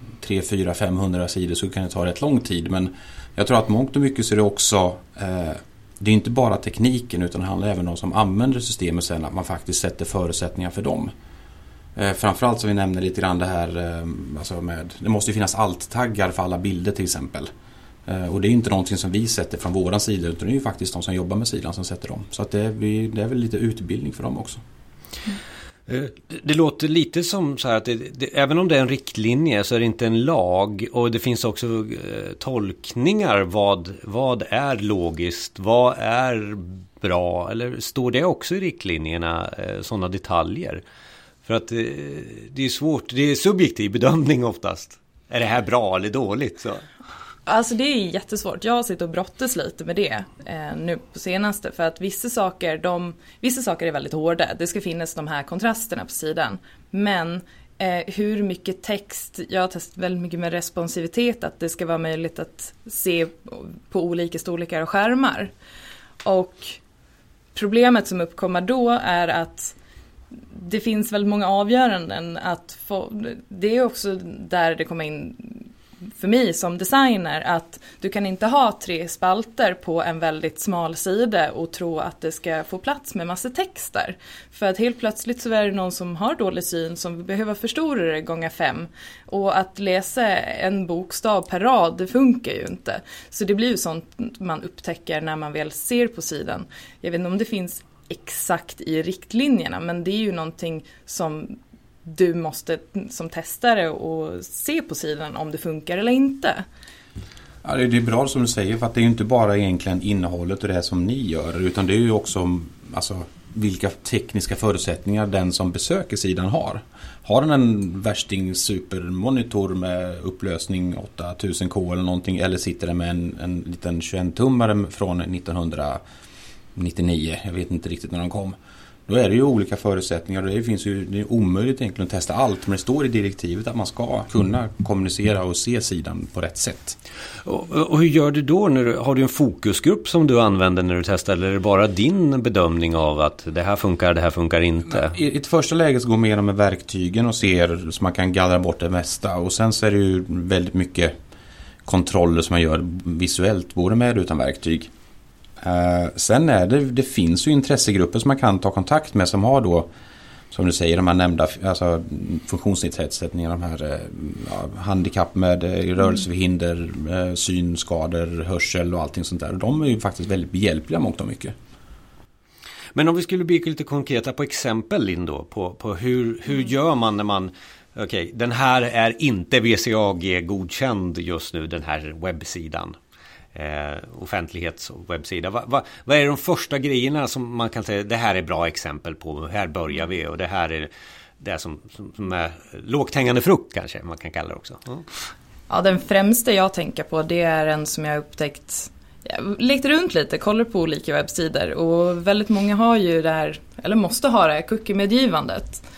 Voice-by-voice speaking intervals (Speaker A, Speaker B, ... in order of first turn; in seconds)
Speaker A: 0.2-11.1, 11.9-17.5, 18.1-24.6, 107.6-126.0, 126.7-128.6, 129.1-137.0, 144.9-151.1, 151.8-154.9, 155.6-159.9, 160.5-171.5
Speaker B: 25.9-40.8, 41.4-46.8, 137.4-145.1, 172.9-182.9, 183.5-195.1
Speaker C: 47.5-65.5, 66.2-66.8, 67.5-69.7, 70.5-75.6, 76.2-106.6, 195.7-205.8